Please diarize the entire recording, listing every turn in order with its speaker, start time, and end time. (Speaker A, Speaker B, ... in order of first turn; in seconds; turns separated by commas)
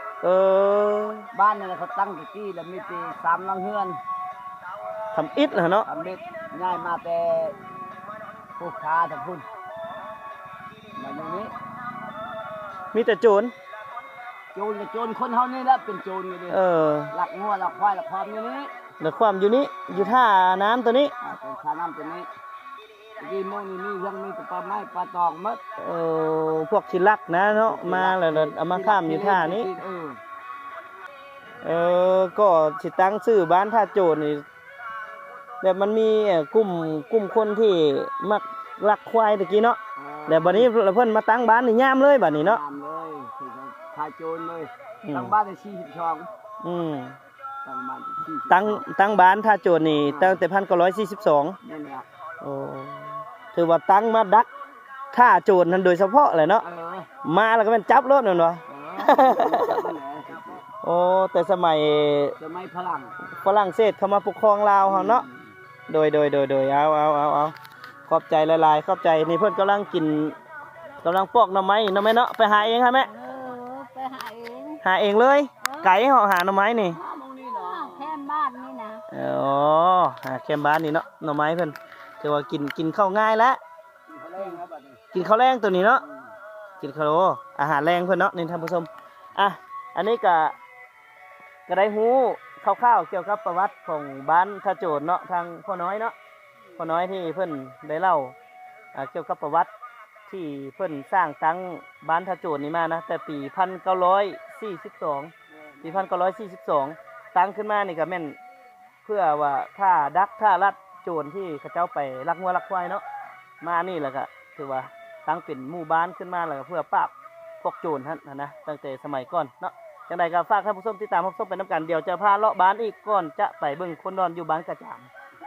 Speaker A: 0.2-1.3, Speaker B: 1.3-4.0, Speaker A: 5.1-5.9, Speaker B: 5.8-7.6, Speaker B: 8.6-9.5, Speaker B: 10.9-11.5, Speaker A: 12.9-13.5, Speaker B: 14.5-18.7, Speaker A: 16.5-17.1, Speaker A: 19.0-21.1, Speaker B: 19.9-20.2, Speaker B: 21.2-22.3, Speaker B: 23.2-25.6, Speaker A: 25.8-29.7, Speaker B: 27.5-30.2, Speaker A: 31.6-34.4, Speaker A: 35.6-42.6, Speaker B: 40.0-40.7, Speaker B: 42.4-46.3, Speaker A: 45.0-45.3, Speaker A: 46.6-47.1, Speaker B: 47.6-48.8, Speaker A: 48.5-51.6, Speaker B: 50.1-50.4, Speaker B: 51.6-52.0, Speaker A: 52.4-54.5, Speaker A: 55.1-56.6, Speaker B: 56.6-57.1, Speaker A: 57.2-59.9, Speaker B: 58.7-60.7, Speaker A: 60.8-62.4, Speaker B: 62.4-63.1, Speaker A: 63.3-65.2, Speaker B: 64.8-65.5, Speaker A: 65.9-67.5, Speaker A: 68.1-70.4, Speaker A: 71.0-73.1, Speaker C: 72.9-74.8, Speaker A: 74.8-77.0, Speaker C: 75.6-75.9, Speaker B: 76.9-78.2, Speaker C: 77.6-79.0, Speaker A: 79.1-83.6, Speaker B: 84.1-85.0, Speaker A: 85.1-86.0, Speaker B: 86.0-86.3, Speaker A: 86.8-90.5, Speaker A: 91.7-96.2, Speaker A: 96.8-98.3, Speaker A: 98.9-99.7, Speaker A: 100.3-108.3, Speaker B: 105.5-106.1, Speaker A: 109.0-113.0, Speaker A: 113.6-125.1